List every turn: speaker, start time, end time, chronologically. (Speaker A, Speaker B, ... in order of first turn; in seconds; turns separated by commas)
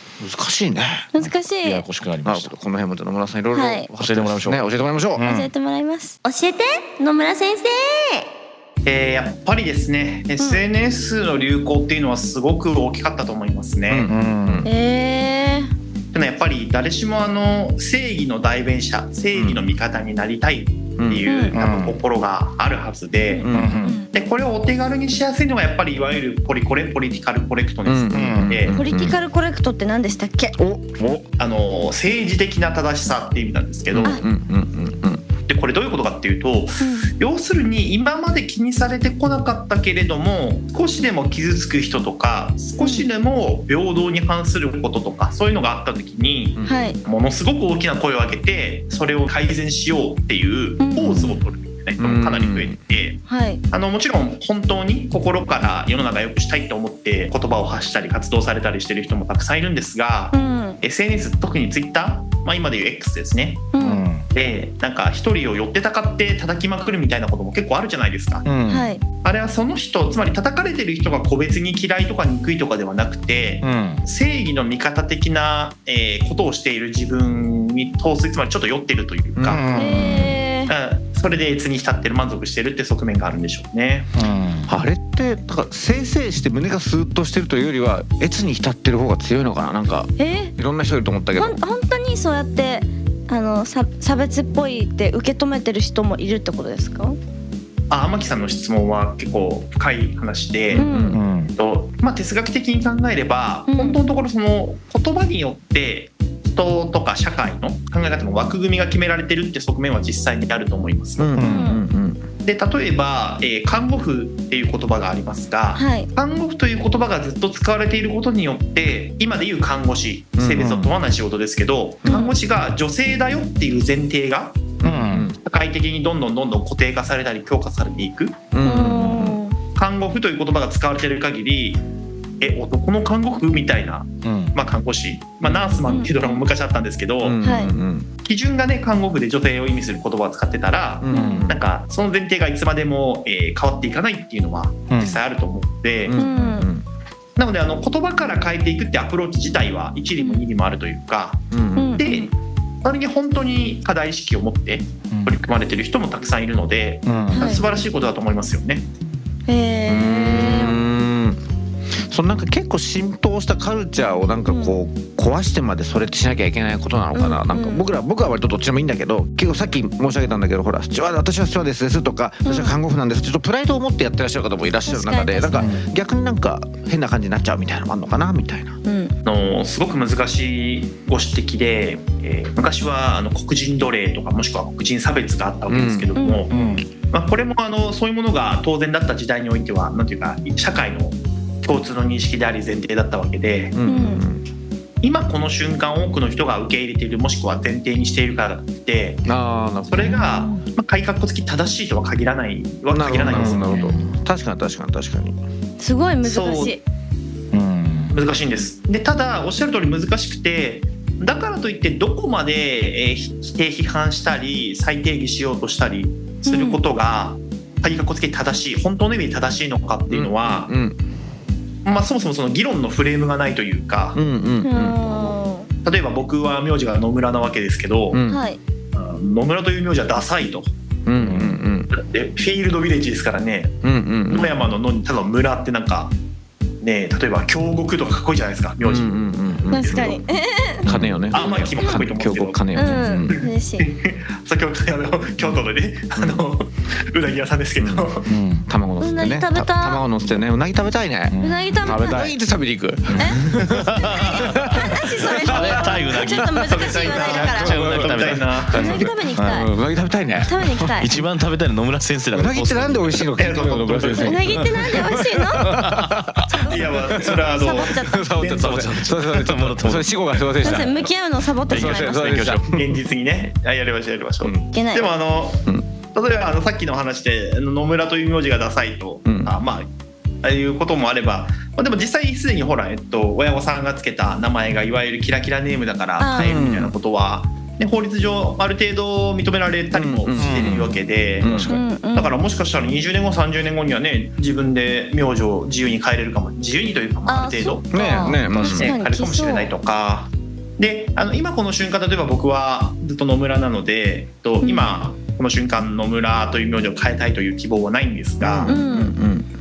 Speaker A: 0.2-1.1, Speaker B: 1.1-1.8, Speaker C: 1.2-2.5, Speaker A: 2.2-5.2, Speaker B: 3.5-3.9, Speaker C: 4.0-4.6, Speaker C: 5.1-5.5, Speaker B: 5.2-8.2, Speaker D: 8.8-14.1, Speaker A: 13.9-14.7, Speaker C: 14.1-14.7, Speaker B: 14.6-15.7, Speaker D: 16.1-23.5, Speaker A: 19.3-19.6, Speaker A: 21.0-21.3, Speaker B: 21.2-21.5, Speaker C: 21.5-22.0, Speaker B: 23.3-24.1, Speaker A: 23.4-23.8, Speaker C: 23.5-24.0, Speaker D: 24.1-28.8, Speaker A: 27.9-29.2, Speaker C: 28.1-28.5, Speaker B: 28.7-30.6, Speaker A: 30.6-31.2, Speaker D: 31.4-34.2, Speaker A: 33.9-35.2, Speaker D: 35.5-63.7, Speaker B: 36.8-37.1, Speaker B: 42.8-43.0, Speaker A: 46.6-46.9, Speaker B: 46.6-47.0, Speaker B: 50.8-51.3, Speaker A: 52.0-52.8, Speaker B: 53.3-53.6, Speaker B: 60.3-60.8, Speaker B: 63.7-64.0, Speaker C: 63.8-64.2, Speaker D: 64.3-68.4, Speaker C: 68.4-68.9, Speaker B: 68.7-69.0, Speaker D: 69.2-79.6, Speaker C: 73.6-74.0, Speaker A: 79.3-79.6, Speaker C: 79.4-80.4, Speaker B: 79.7-80.7, Speaker D: 80.7-84.1, Speaker C: 84.2-84.7, Speaker A: 84.7-91.5, Speaker B: 90.2-90.5, Speaker B: 91.3-97.2, Speaker D: 97.9-100.9, Speaker A: 100.7-101.2, Speaker B: 100.7-101.2, Speaker C: 101.1-101.5, Speaker D: 101.5-111.3, Speaker B: 103.7-104.0, Speaker A: 111.2-112.2, Speaker C: 111.4-111.7, Speaker B: 111.4-111.8, Speaker D: 112.4-124.7, Speaker B: 115.8-116.1, Speaker A: 120.4-120.8, Speaker B: 122.1-122.3, Speaker A: 124.8-125.4, Speaker C: 124.8-125.3, Speaker D: 125.4-128.4, Speaker A: 128.5-129.4, Speaker B: 128.6-129.6, Speaker D: 129.7-131.8, Speaker D: 132.4-137.4, Speaker C: 134.2-134.5, Speaker A: 135.4-135.8, Speaker B: 135.8-136.4, Speaker A: 137.2-138.1, Speaker B: 137.4-137.7, Speaker D: 138.2-146.2, Speaker A: 141.0-141.6, Speaker C: 141.1-141.5, Speaker B: 141.1-141.4, Speaker C: 144.9-145.2, Speaker A: 146.0-146.8, Speaker B: 146.1-146.7, Speaker D: 147.4-151.4, Speaker A: 151.5-152.0, Speaker B: 151.8-152.3, Speaker D: 152.0-152.3, Speaker D: 152.8-158.9, Speaker C: 157.1-157.5, Speaker B: 157.3-157.6, Speaker B: 159.5-160.8, Speaker A: 159.9-161.4, Speaker A: 162.1-178.8, Speaker B: 164.4-164.8, Speaker B: 167.1-167.9, Speaker B: 172.4-172.8, Speaker B: 174.8-175.7, Speaker C: 175.5-175.8, Speaker B: 178.8-179.1, Speaker D: 179.2-193.7, Speaker A: 185.7-186.1, Speaker B: 186.2-186.8, Speaker C: 186.5-186.8, Speaker A: 193.7-194.4, Speaker B: 193.8-194.2, Speaker D: 195.0-199.2, Speaker A: 199.2-200.3, Speaker D: 199.9-203.9, Speaker A: 202.9-205.3, Speaker C: 203.3-204.1, Speaker B: 205.8-206.8, Speaker D: 206.2-206.8, Speaker C: 207.5-208.1, Speaker D: 208.1-220.7, Speaker B: 216.4-216.8, Speaker A: 220.1-221.0, Speaker D: 221.8-224.2, Speaker A: 224.1-225.3, Speaker B: 224.6-225.7, Speaker D: 225.8-228.2, Speaker A: 228.1-228.4, Speaker B: 228.3-228.6, Speaker D: 228.9-230.7, Speaker A: 231.1-231.9, Speaker C: 231.2-231.6, Speaker D: 231.9-236.1, Speaker A: 233.8-234.7, Speaker D: 236.8-240.2, Speaker A: 238.8-240.2, Speaker B: 239.7-240.8, Speaker C: 240.8-241.2, Speaker A: 240.8-243.3, Speaker D: 241.3-242.7, Speaker B: 242.7-243.9, Speaker C: 242.8-243.3, Speaker D: 243.3-248.3, Speaker A: 246.1-246.4, Speaker A: 247.8-248.1, Speaker C: 248.3-248.7, Speaker A: 248.7-261.2, Speaker B: 249.0-250.0, Speaker C: 251.3-252.3, Speaker B: 251.4-252.3, Speaker C: 253.1-259.7, Speaker B: 253.1-253.4, Speaker B: 253.9-257.8, Speaker D: 256.7-258.9, Speaker B: 258.7-259.7, Speaker B: 260.4-261.1, Speaker C: 261.0-263.3, Speaker A: 262.3-271.1, Speaker D: 263.4-264.6, Speaker B: 264.2-265.8, Speaker C: 265.6-266.6, Speaker B: 266.5-268.3, Speaker D: 266.6-268.9, Speaker C: 268.4-270.9, Speaker B: 270.6-272.4, Speaker C: 271.7-272.8, Speaker A: 271.7-273.0, Speaker D: 272.7-279.9, Speaker B: 274.7-275.1, Speaker A: 279.2-279.5, Speaker D: 280.4-308.8, Speaker B: 286.2-286.6, Speaker A: 286.4-286.9, Speaker A: 289.9-291.8, Speaker C: 290.4-290.9, Speaker B: 291.5-292.4, Speaker B: 297.3-299.7, Speaker A: 297.9-298.9, Speaker B: 304.6-304.9, Speaker A: 308.4-309.5, Speaker B: 308.6-309.1